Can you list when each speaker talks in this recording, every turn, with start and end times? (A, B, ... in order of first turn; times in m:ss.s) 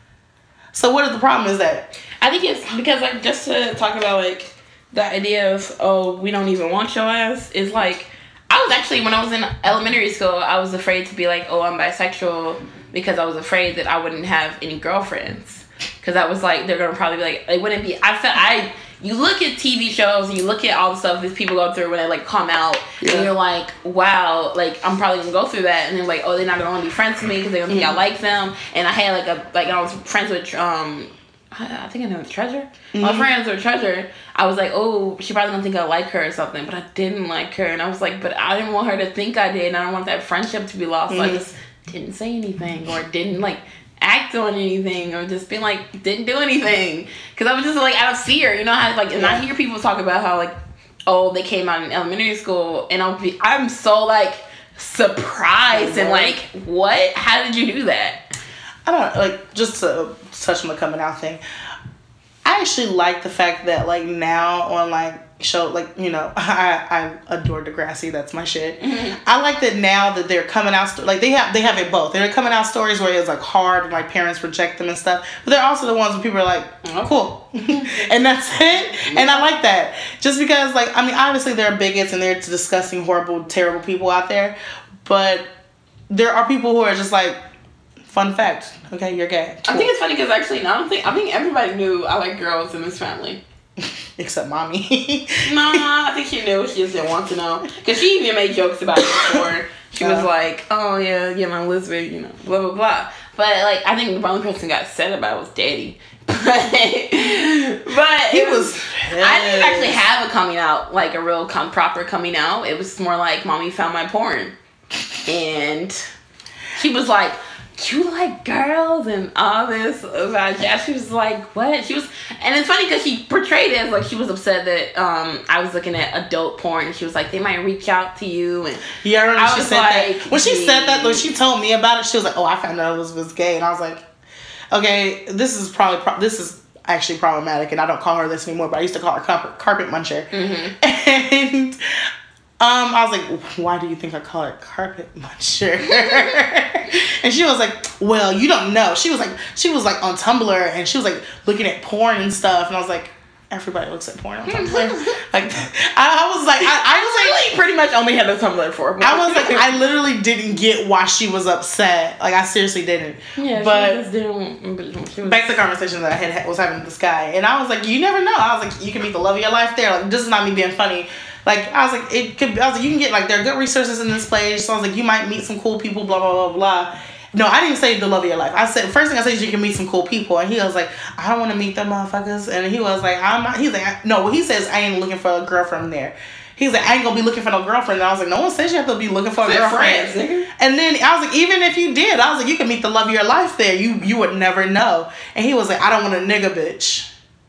0:00.7-0:01.9 A
0:02.2-0:50.6 B
0:23.0-0:23.3 A
0:27.7-0:28.0 A
0:32.9-0:33.3 A
0:41.1-0:41.5 A
0:49.2-0:49.4 A
0:51.1-0:58.3 B
0:55.7-0:56.4 A
0:58.9-1:01.4 A
1:02.4-1:25.5 A
1:08.8-1:09.2 B
1:16.8-1:18.2 B
1:19.0-1:19.4 B
1:26.1-1:27.4 A
1:28.1-1:29.9 A
1:29.7-1:33.4 B
1:33.8-1:35.9 A
1:35.4-1:54.5 B
1:39.0-1:39.5 A
1:40.0-1:40.3 A
1:48.3-1:50.0 A
1:55.3-1:56.1 B
1:56.8-2:08.8 B
2:09.0-2:14.0 A
2:09.4-2:11.3 B
2:14.7-2:22.0 A
2:20.3-2:20.7 B
2:22.6-2:37.5 A
2:34.5-2:35.2 B
2:36.6-2:39.7 B
2:39.0-2:44.0 A
2:43.4-2:45.6 B
2:45.2-3:17.1 A
3:09.4-3:10.5 B